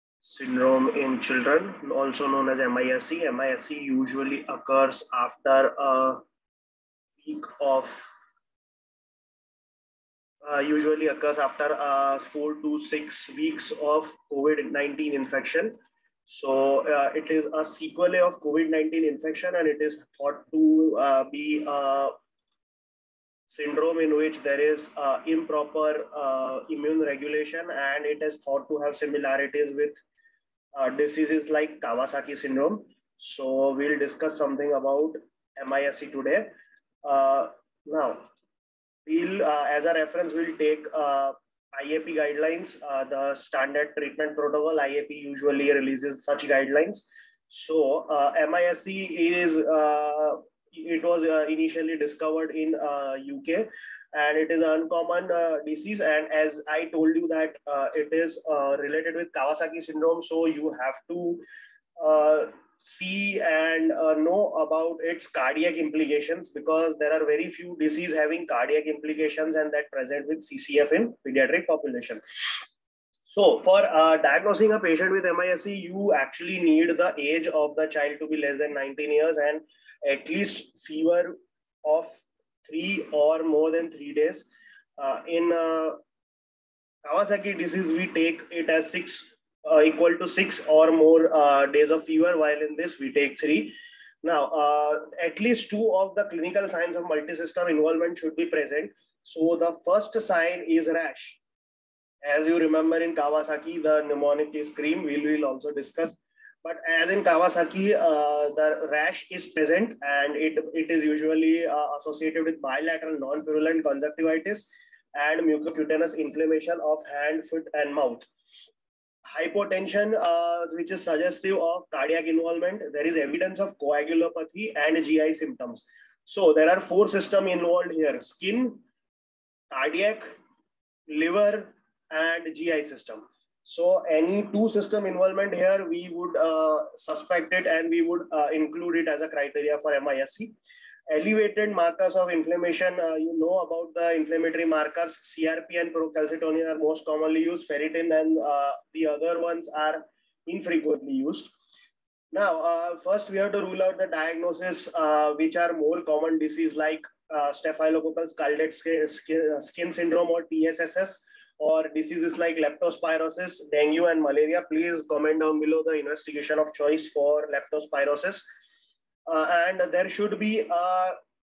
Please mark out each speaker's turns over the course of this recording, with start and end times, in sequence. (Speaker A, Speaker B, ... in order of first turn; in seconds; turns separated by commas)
Speaker A: 0.2-6.2, Speaker A: 7.2-8.1, Speaker A: 10.4-15.8, Speaker A: 16.3-22.1, Speaker A: 23.5-30.0, Speaker A: 30.7-38.3, Speaker A: 39.0-61.4, Speaker A: 62.0-72.6, Speaker A: 73.3-84.5, Speaker A: 85.0-86.0, Speaker A: 87.0-101.4, Speaker A: 102.2-118.3, Speaker A: 119.3-128.8, Speaker A: 129.7-130.3, Speaker A: 131.1-140.5, Speaker A: 141.1-151.5, Speaker A: 152.3-168.4, Speaker A: 169.3-171.2